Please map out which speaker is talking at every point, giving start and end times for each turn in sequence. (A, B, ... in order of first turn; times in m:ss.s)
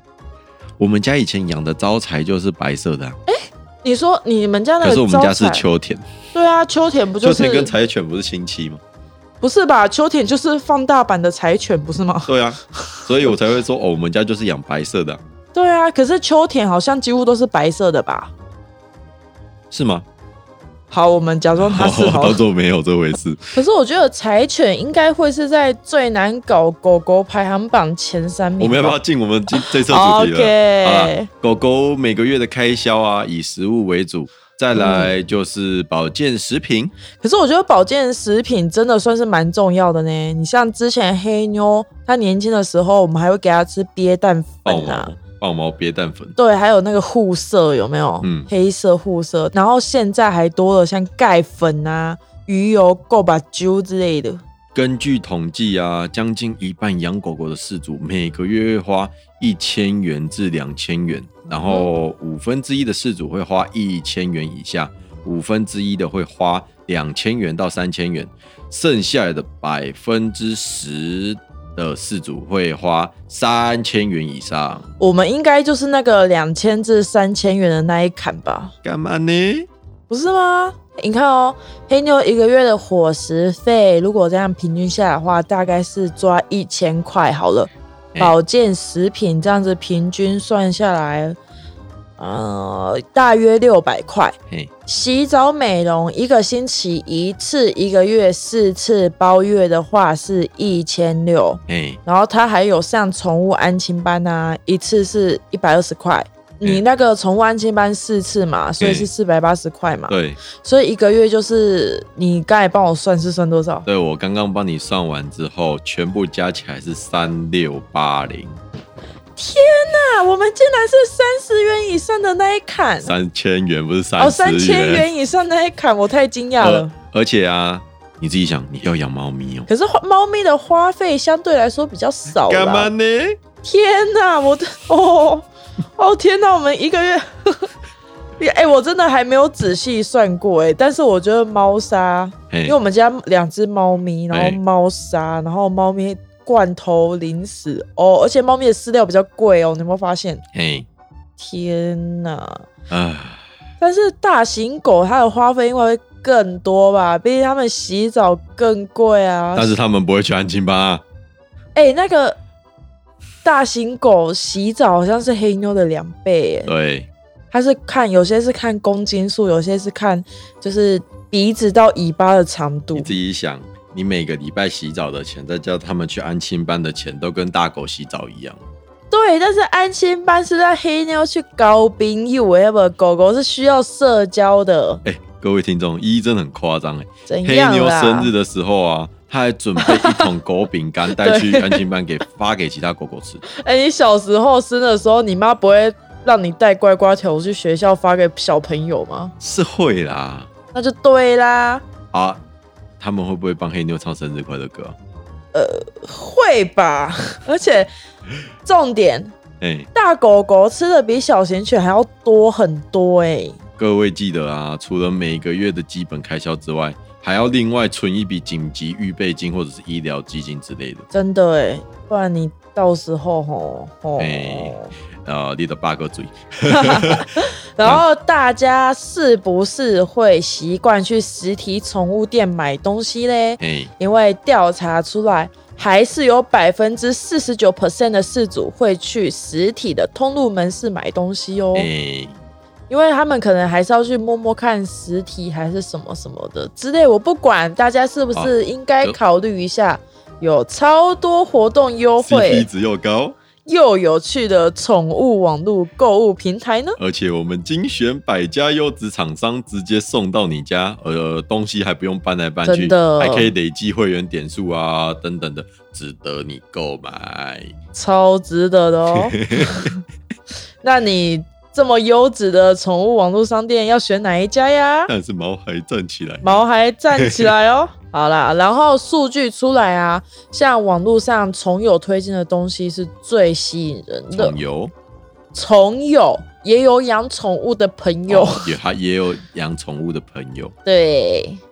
0:00.8-0:03.2 A
0:03.3-0:05.7 B
0:04.8-0:06.0 A
0:06.3-0:07.8 B
0:07.2-0:08.8 A
0:09.4-0:13.0 B
0:12.3-0:15.2 A
0:15.5-0:18.3 B
0:19.7-0:20.1 A
0:20.9-0:22.4 B
0:21.6-0:23.4 A
0:23.5-0:31.3 B
0:28.6-0:36.9 A
0:34.7-0:35.1 B
0:37.1-0:45.1 B
0:44.7-0:46.4 A
0:46.4-0:54.4 B
0:48.2-0:48.5 A
0:54.8-1:14.9 A
1:15.0-1:18.7 B
1:18.8-1:19.7 A
1:20.1-1:31.4 B
1:32.2-1:53.9 B
1:41.7-1:42.0 A
1:48.8-1:49.1 A
1:50.1-1:50.4 A
1:53.9-1:58.6 A
1:59.4-2:03.1 B
2:03.0-2:05.1 A
2:04.2-2:06.9 B
2:06.6-2:09.7 A
2:09.7-2:12.9 B
2:12.4-2:13.4 A
2:13.6-2:17.7 B
2:18.4-2:30.4 B
2:22.5-2:22.8 A
2:24.3-2:24.6 A
2:30.5-2:30.9 A
2:31.4-2:32.7 B
2:32.9-2:33.4 A
2:33.8-2:39.7 B
2:39.6-2:41.0 A
2:41.8-2:42.4 B
2:43.4-2:46.7 B
2:46.7-2:47.1 A
2:47.5-2:53.2 B
2:53.0-2:58.6 A
2:59.1-3:05.0 B
3:05.0-3:13.4 A
3:07.3-3:08.3 B
3:09.8-3:10.3 B
3:11.1-3:11.9 B
3:13.5-3:19.3 B
3:19.4-3:20.5 A
3:20.7-3:21.9 B
3:22.1-3:22.4 A
3:23.0-3:25.0 A
3:25.5-3:27.9 B
3:28.6-3:29.4 B
3:29.6-3:29.9 A
3:29.9-3:33.6 B
3:33.8-3:41.0 A
3:41.1-3:44.9 B
3:44.2-3:47.3 A
3:46.7-4:01.9 B
3:53.6-3:53.9 A
4:01.7-4:02.4 A
4:02.9-4:12.7 B
4:08.4-4:09.2 A
4:12.2-4:13.4 A
4:13.6-4:17.0 B
4:17.0-4:27.7 A
4:22.6-4:23.5 B
4:27.9-4:30.0 B
4:29.1-4:29.9 A
4:30.8-4:35.1 B
4:35.1-4:36.6 A
4:36.4-4:44.6 B
4:37.1-4:37.5 A
4:44.3-4:44.9 A
4:45.5-4:48.7 B
4:48.3-4:50.7 A
4:50.8-4:51.6 B